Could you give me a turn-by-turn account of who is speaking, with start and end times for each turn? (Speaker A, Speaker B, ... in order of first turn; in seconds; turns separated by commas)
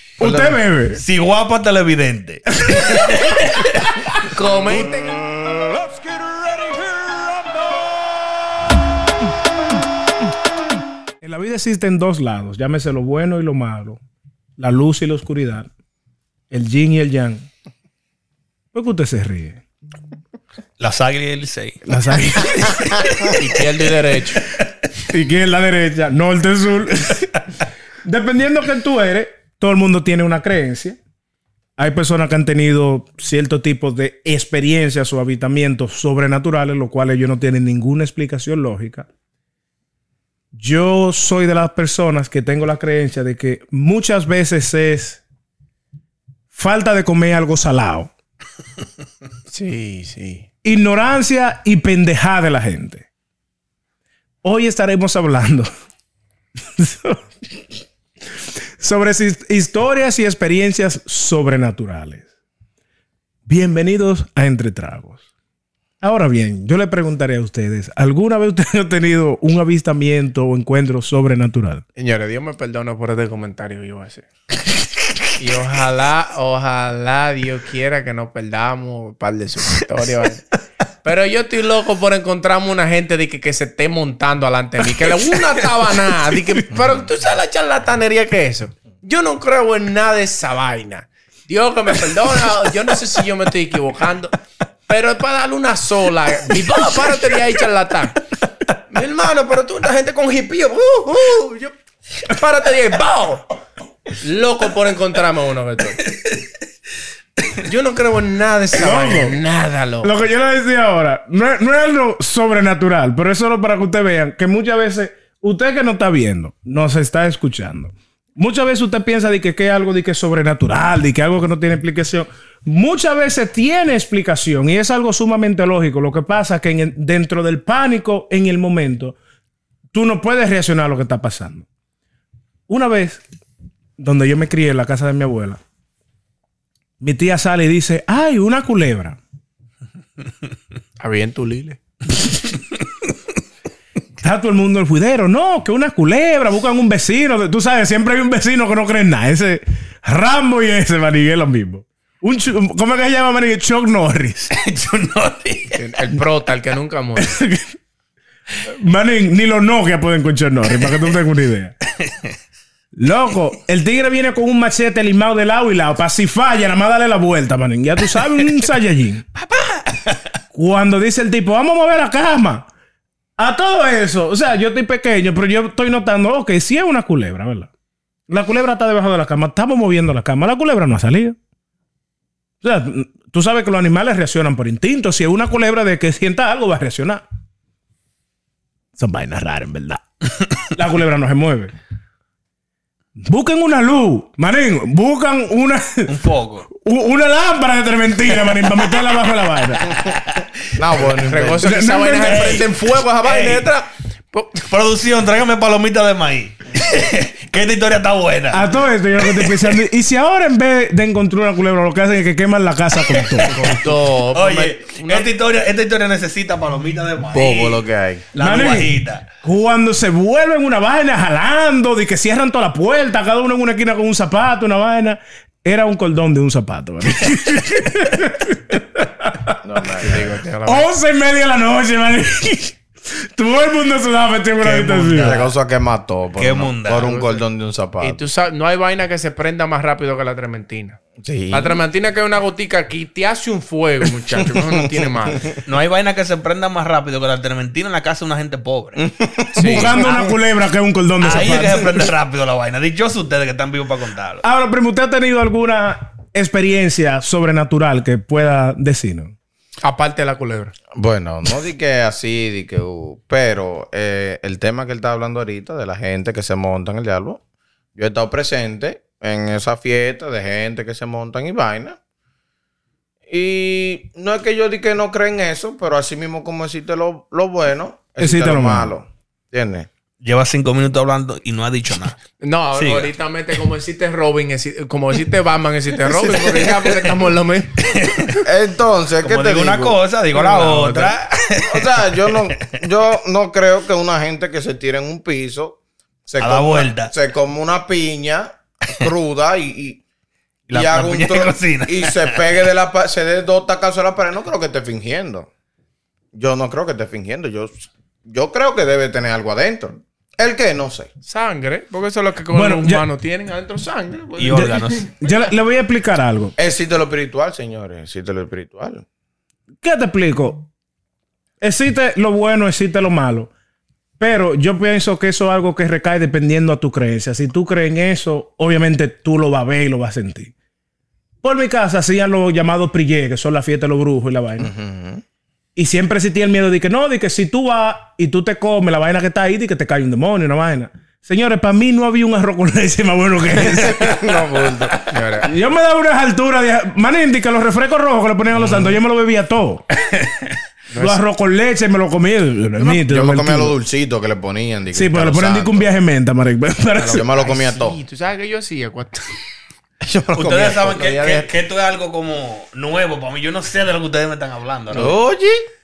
Speaker A: 0.2-1.0, Speaker B: 0.2-0.6, Speaker C: 1.0-3.9, Speaker A: 2.6-3.4, Speaker D: 4.2-5.2, Speaker A: 11.2-14.0, Speaker A: 14.6-15.7, Speaker A: 16.5-17.5, Speaker A: 18.7-19.6, Speaker C: 20.8-21.8, Speaker A: 21.8-23.0, Speaker C: 22.5-23.3, Speaker D: 23.3-24.4, Speaker A: 25.1-27.4, Speaker A: 28.0-31.0, Speaker A: 31.8-39.1, Speaker A: 40.5-45.2, Speaker A: 46.5-48.1, Speaker D: 49.5-50.5, Speaker A: 50.6-53.0, Speaker A: 54.4-55.7, Speaker A: 56.8-57.2, Speaker A: 58.8-62.2, Speaker A: 63.5-65.2, Speaker A: 66.0-71.8, Speaker D: 72.0-74.3, Speaker D: 75.4-80.4, Speaker D: 81.0-94.3, Speaker D: 94.9-98.2, Speaker D: 98.9-103.5, Speaker D: 104.2-106.0, Speaker D: 107.6-110.1, Speaker A: 108.8-109.4, Speaker A: 110.0-129.2, Speaker A: 129.9-131.7, Speaker A: 132.7-133.2, Speaker A: 134.0-135.6, Speaker A: 137.0-139.2, Speaker D: 141.0-141.8, Speaker A: 144.2-154.5, Speaker C: 154.5-155.8, Speaker D: 155.7-157.4, Speaker A: 157.2-157.7, Speaker A: 158.6-161.7, Speaker C: 162.0-162.3, Speaker A: 162.9-169.2, Speaker C: 169.3-170.3, Speaker A: 170.5-172.7, Speaker A: 173.4-177.7, Speaker A: 178.3-181.4, Speaker A: 182.6-187.2, Speaker A: 189.0-190.0, Speaker A: 190.7-191.7, Speaker A: 193.2-196.2, Speaker C: 196.1-196.7, Speaker A: 196.7-200.0, Speaker C: 199.8-200.4, Speaker B: 200.8-201.7, Speaker D: 201.0-204.7, Speaker A: 201.5-202.6, Speaker C: 202.2-203.7, Speaker C: 204.7-208.8, Speaker A: 208.5-213.5, Speaker C: 209.3-209.7, Speaker C: 213.1-213.6, Speaker D: 213.4-215.3, Speaker C: 214.3-219.3, Speaker B: 217.3-218.3, Speaker A: 218.4-229.6, Speaker B: 229.6-230.4, Speaker D: 230.0-230.9, Speaker A: 230.6-235.4, Speaker C: 234.6-235.5, Speaker B: 235.2-238.2, Speaker C: 236.4-237.2, Speaker D: 236.9-237.4, Speaker D: 238.0-241.0, Speaker B: 241.2-241.8, Speaker D: 241.5-245.5, Speaker C: 245.6-249.1, Speaker B: 249.0-249.9, Speaker D: 249.5-250.2, Speaker A: 249.6-252.1, Speaker C: 251.2-254.4, Speaker A: 254.4-259.3, Speaker D: 259.8-260.7, Speaker B: 260.9-267.4, Speaker B: 267.9-272.0, Speaker B: 273.3-279.9, Speaker A: 278.2-278.9, Speaker C: 280.2-282.2, Speaker D: 282.4-288.4, Speaker C: 282.7-283.1, Speaker C: 286.1-287.1, Speaker C: 287.8-288.4, Speaker B: 288.4-290.0, Speaker C: 289.2-292.8, Speaker D: 290.3-291.1, Speaker B: 291.6-300.0, Speaker C: 296.4-297.1, Speaker C: 300.7-302.4, Speaker B: 300.7-305.5, Speaker B: 306.3-311.1, Speaker D: 311.2-315.4, Speaker A: 312.5-313.0, Speaker C: 314.4-315.1, Speaker A: 314.5-316.5, Speaker B: 316.6-319.0, Speaker A: 319.8-320.6, Speaker A: 321.6-323.5, Speaker A: 324.2-330.5, Speaker A: 331.4-334.7, Speaker B: 334.6-335.2, Speaker A: 335.8-344.2, Speaker B: 343.5-345.1, Speaker D: 344.9-345.5, Speaker A: 345.4-349.8, Speaker B: 348.6-348.9, Speaker C: 350.0-350.5, Speaker D: 350.9-351.2, Speaker A: 350.9-353.8, Speaker B: 352.8-355.9, Speaker A: 354.9-357.2, Speaker D: 356.9-359.4, Speaker B: 357.1-358.0, Speaker B: 360.0-361.0, Speaker C: 360.3-365.2, Speaker D: 360.8-361.5, Speaker B: 364.9-365.6